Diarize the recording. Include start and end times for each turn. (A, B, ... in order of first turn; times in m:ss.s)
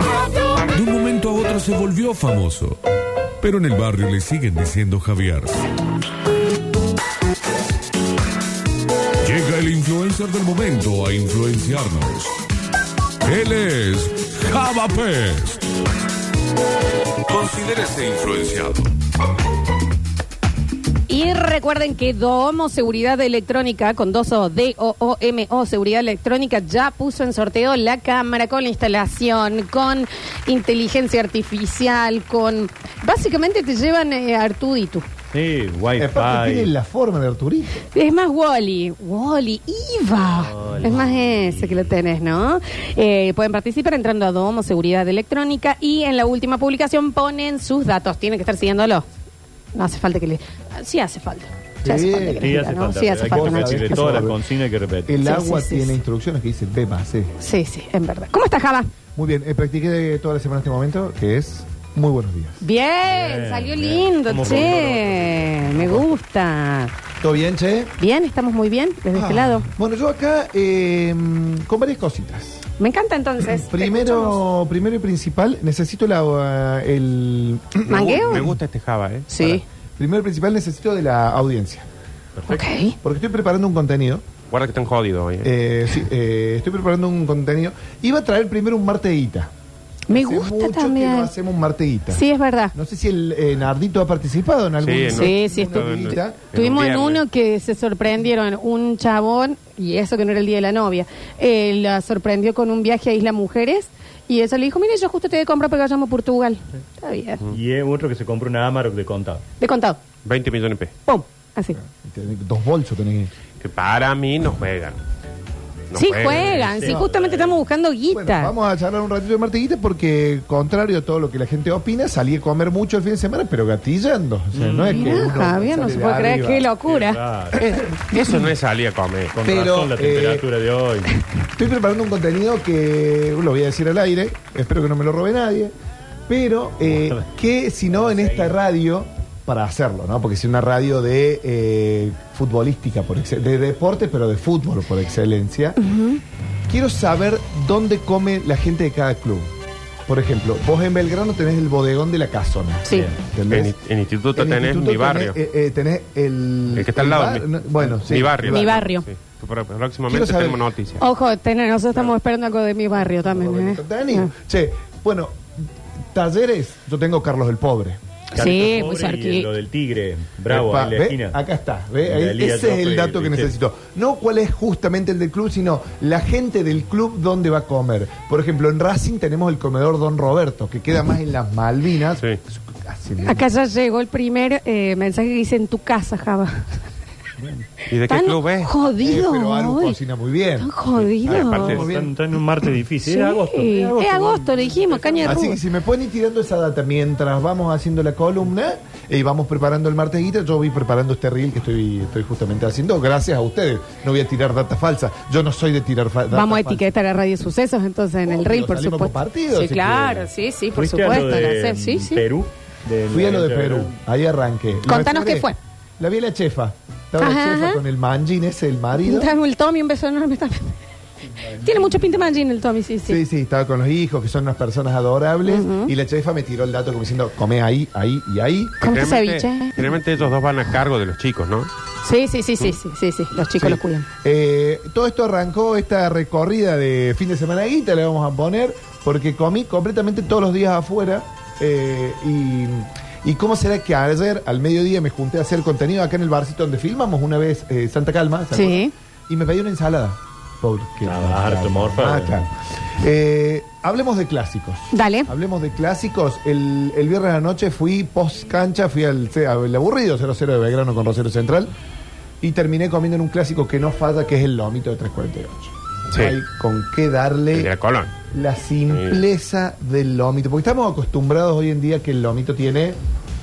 0:00.7-0:02.8 A
0:03.4-0:05.6 A
0:09.2-0:12.4 A
0:13.2-0:15.6 A
0:17.3-0:18.9 A
0:21.1-0:35.1 B
0:35.3-0:36.7 C
0:36.0-0:37.9 D
0:37.9-0:49.1 B
0:40.3-0:41.9 C
0:49.8-0:54.3 B
0:51.8-0:52.5 D
0:52.4-0:55.1 C
0:53.2-0:54.4 D
0:55.1-0:57.3 D
0:55.2-0:56.0 B
0:57.4-0:58.9 B
0:59.2-1:02.6 D
1:02.6-1:06.9 B
1:03.1-1:05.6 C
1:04.4-1:04.7 D
1:07.2-1:07.9 D
1:08.0-1:09.7 B
1:09.1-1:12.7 D
1:12.8-1:14.4 B
1:13.4-1:18.6 D
1:17.9-1:18.4 B
1:17.9-1:19.3 E
1:19.3-1:19.6 B
1:19.4-1:21.9 D
1:22.4-1:22.6 C
1:22.5-1:23.0 B
1:23.0-1:24.2 D
1:24.5-1:25.5 E
1:25.4-1:29.5 D
1:30.1-1:31.3 B
1:30.1-1:36.5 D
1:32.1-1:32.7 B
1:34.8-1:37.2 E
1:35.1-1:47.4 B
1:47.5-1:49.4 C
1:49.6-1:50.0 B
1:50.2-1:50.9 E
1:51.1-1:51.8 B
1:51.8-1:53.3 D
1:53.6-1:55.0 E
1:55.9-1:56.8 E
1:56.0-1:58.5 B
1:56.3-1:57.6 C
1:56.8-1:57.1 D
1:58.1-2:06.7 D
2:04.5-2:05.2 C
2:04.9-2:07.2 B
2:06.9-2:07.6 C
2:07.6-2:08.4 D
2:07.6-2:09.4 E
2:09.3-2:11.1 C
2:09.4-2:10.4 D
2:11.6-2:15.7 D
2:16.3-2:25.8 D
2:16.9-2:17.3 C
2:17.9-2:18.6 C
2:25.8-2:26.2 B
2:26.7-2:29.5 D
2:30.1-2:33.7 D
2:32.9-2:33.2 C
2:33.5-2:35.4 E
2:34.4-2:38.9 D
2:36.7-2:41.0 E
2:38.5-2:39.0 B
2:40.1-2:40.6 D
2:41.0-2:44.3 B
2:43.0-2:45.4 D
2:46.1-2:48.0 D
2:48.3-2:49.5 B
2:48.4-2:51.4 C
2:50.5-3:03.5 D
2:52.0-2:53.5 C
3:03.2-3:06.7 B
3:07.9-3:08.7 E
3:08.1-3:10.0 B
3:08.8-3:12.2 D
3:10.6-3:11.8 B
3:11.1-3:11.9 E
3:11.6-3:15.4 C
3:13.1-3:15.6 B
3:15.2-3:26.9 D
3:26.3-3:32.2 B
3:28.3-3:30.3 D
3:30.8-3:33.9 C
3:33.1-3:39.3 D
3:34.9-3:35.6 B
3:37.2-3:37.8 B
3:39.0-3:40.8 B
3:41.6-3:43.2 B
3:43.1-3:49.0 D
3:45.4-3:45.9 B
3:48.8-3:49.8 B
3:48.8-3:51.7 E
3:52.0-3:54.1 B
3:53.6-4:21.7 D
4:08.5-4:08.9 B
4:11.0-4:12.4 C
4:14.9-4:15.3 B
4:22.4-4:27.7 D
4:26.1-4:26.4 E
4:27.5-4:28.1 E
4:28.3-4:33.0 D
4:28.9-4:29.2 E